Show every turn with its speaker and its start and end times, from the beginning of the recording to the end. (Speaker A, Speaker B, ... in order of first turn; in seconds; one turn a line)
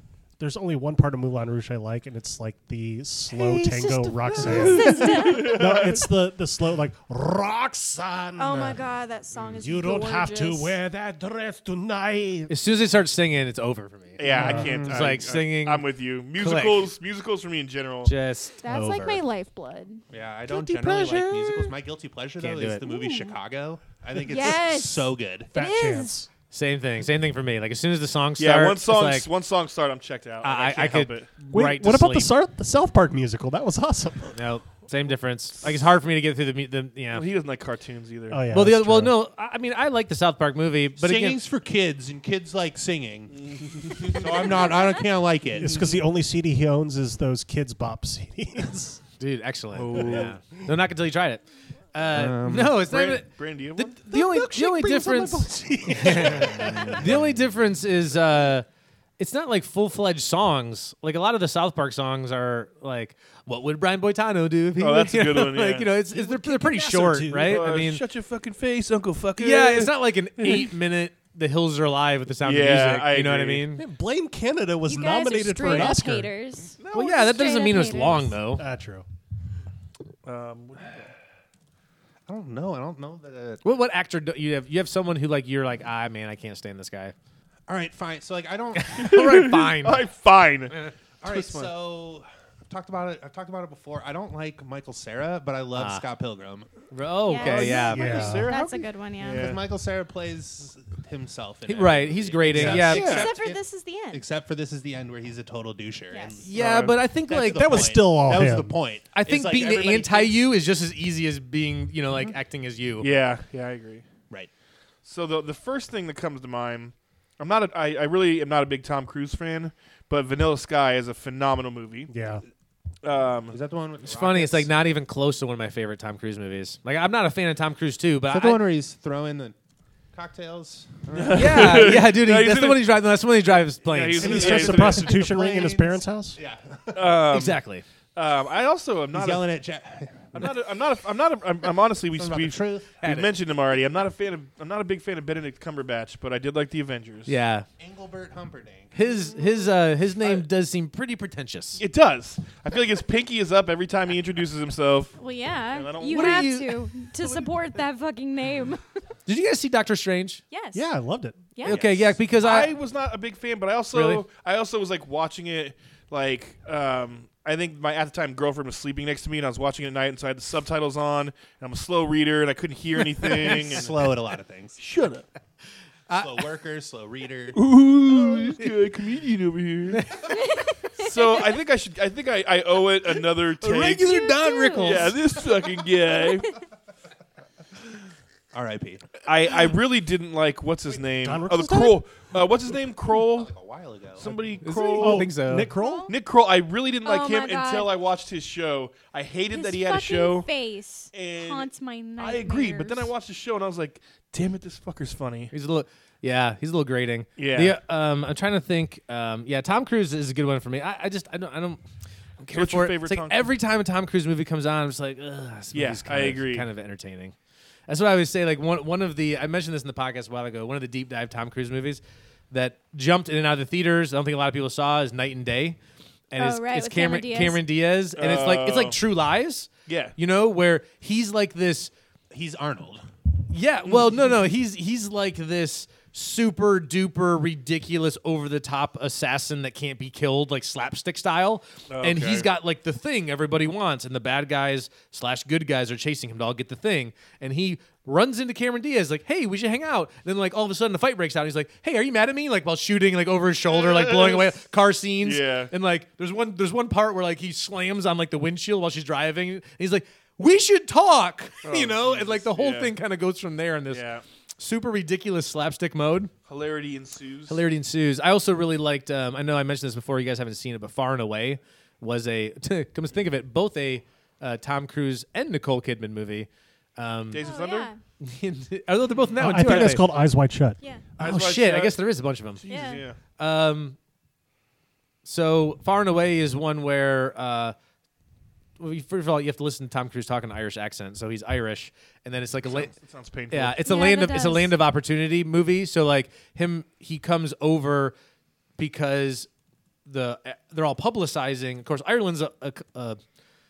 Speaker A: 0.4-8.8
Speaker B: 3.3-5.1
Speaker C: 4.5-6.1
Speaker D: 4.5-5.6
Speaker D: 8.4-10.8
Speaker A: 9.6-12.5
Speaker B: 12.5-16.9
Speaker C: 14.2-18.1
Speaker A: 14.3-14.8
Speaker E: 14.6-15.0
Speaker B: 18.0-18.8
Speaker D: 18.6-20.0
Speaker A: 18.7-19.2
Speaker E: 20.1-25.5
Speaker A: 20.5-21.7
Speaker B: 22.4-22.8
Speaker D: 22.9-23.3
Speaker D: 24.1-26.1
Speaker A: 25.5-26.3
Speaker B: 26.5-29.3
Speaker C: 28.4-31.3
Speaker B: 30.4-32.3
Speaker A: 31.5-34.4
Speaker B: 34.3-37.2
Speaker C: 37.1-38.4
Speaker A: 38.3-39.1
Speaker B: 38.5-41.4
Speaker E: 41.0-46.0
Speaker C: 43.4-44.4
Speaker A: 45.5-49.0
Speaker B: 49.2-51.4
Speaker C: 49.8-50.4
Speaker E: 49.8-50.3
Speaker B: 51.9-58.7
Speaker E: 52.1-52.8
Speaker C: 52.8-54.0
Speaker A: 54.1-57.0
Speaker C: 56.1-56.8
Speaker E: 56.5-57.1
Speaker B: 59.2-68.0
Speaker C: 64.8-66.0
Speaker A: 66.1-67.6
Speaker C: 67.4-70.7
Speaker B: 69.4-73.8
Speaker C: 72.4-73.7
Speaker A: 73.8-76.3
Speaker D: 74.8-78.4
Speaker C: 76.8-77.2
Speaker B: 76.9-78.6
Speaker A: 78.5-79.0
Speaker C: 80.2-81.1
Speaker E: 82.3-83.6
Speaker B: 83.6-87.1
Speaker E: 87.7-89.1
Speaker B: 88.7-90.0
Speaker C: 89.0-91.7
Speaker E: 91.2-96.7
Speaker B: 95.8-96.0
Speaker B: 96.9-98.4
Speaker D: 97.3-99.5
Speaker C: 97.4-99.6
Speaker A: 97.9-98.5
Speaker E: 99.2-110.5
Speaker B: 101.7-103.2
Speaker A: 102.5-102.9
Speaker C: 102.6-103.3
Speaker D: 102.9-104.2
Speaker D: 106.1-106.4
Speaker B: 106.4-108.0
Speaker C: 106.5-106.9
Speaker A: 107.5-108.8
Speaker B: 109.1-113.1
Speaker C: 113.0-114.0
Speaker C: 115.0-122.1
Speaker A: 122.1-122.4
Speaker C: 123.0-123.6
Speaker E: 123.5-124.7
Speaker B: 124.0-128.7
Speaker E: 128.3-129.6
Speaker E: 130.1-131.9
Speaker C: 131.1-132.9
Speaker B: 131.3-134.8
Speaker C: 133.8-135.2
Speaker A: 134.2-136.4
Speaker E: 134.2-137.2
Speaker C: 136.9-137.6
Speaker B: 137.3-137.8
Speaker C: 138.1-139.4
Speaker E: 139.1-140.5
Speaker C: 140.3-147.3
Speaker E: 142.1-143.0
Speaker B: 143.0-143.3
Speaker B: 147.2-147.7
Speaker E: 147.8-149.1
Speaker B: 148.9-151.8
Speaker C: 151.8-155.1
Speaker D: 155.2-158.9
Speaker C: 155.7-156.6
Speaker B: 156.1-157.4
Speaker B: 159.2-160.4
Speaker D: 160.5-160.9
Speaker A: 160.7-161.5
Speaker B: 161.6-162.7
Speaker C: 161.7-173.9
Speaker B: 163.9-164.2
Speaker E: 173.2-174.8
Speaker C: 174.8-175.2
Speaker B: 176.1-176.4
Speaker E: 176.1-177.6
Speaker C: 177.5-180.0
Speaker B: 179.9-180.3
Speaker D: 180.3-181.5
Speaker C: 181.0-184.2
Speaker B: 183.6-185.2
Speaker D: 184.0-185.1
Speaker C: 184.8-186.5
Speaker E: 188.5-189.1
Speaker C: 189.2-193.5
Speaker A: 191.2-192.0
Speaker E: 193.1-194.4
Speaker C: 194.2-195.3
Speaker B: 194.6-195.7
Speaker A: 195.0-196.1
Speaker D: 195.6-196.1
Speaker C: 196.1-200.5
Speaker D: 197.0-197.9
Speaker D: 199.5-203.1
Speaker C: 201.1-205.5
Speaker B: 205.5-211.8
Speaker C: 207.4-207.8
Speaker B: 212.4-217.3
Speaker C: 212.5-213.5
Speaker C: 215.7-216.7
Speaker B: 217.9-225.8
Speaker B: 226.3-231.9
Speaker D: 226.4-227.6
Speaker C: 228.2-229.0
Speaker C: 229.8-230.1
Speaker E: 232.3-233.0
Speaker B: 233.5-264.0
Speaker C: 241.9-242.5
Speaker C: 253.7-254.5
Speaker C: 255.2-255.7
Speaker C: 261.6-262.9
Speaker C: 263.9-264.2
Speaker B: 264.6-266.3
Speaker C: 266.5-267.6
Speaker B: 267.5-277.4
Speaker C: 277.3-277.9
Speaker D: 277.4-278.0
Speaker B: 278.2-280.1
Speaker A: 279.4-280.8
Speaker C: 279.6-279.9
Speaker C: 281.2-282.0
Speaker B: 281.2-282.6
Speaker C: 282.6-283.2
Speaker D: 282.7-283.0
Speaker B: 283.4-284.0
Speaker B: 285.2-287.7
Speaker B: 288.8-292.9
Speaker C: 292.6-293.8
Speaker B: 293.5-298.1
Speaker D: 293.8-294.7
Speaker B: 298.8-299.5
Speaker B: 300.1-303.2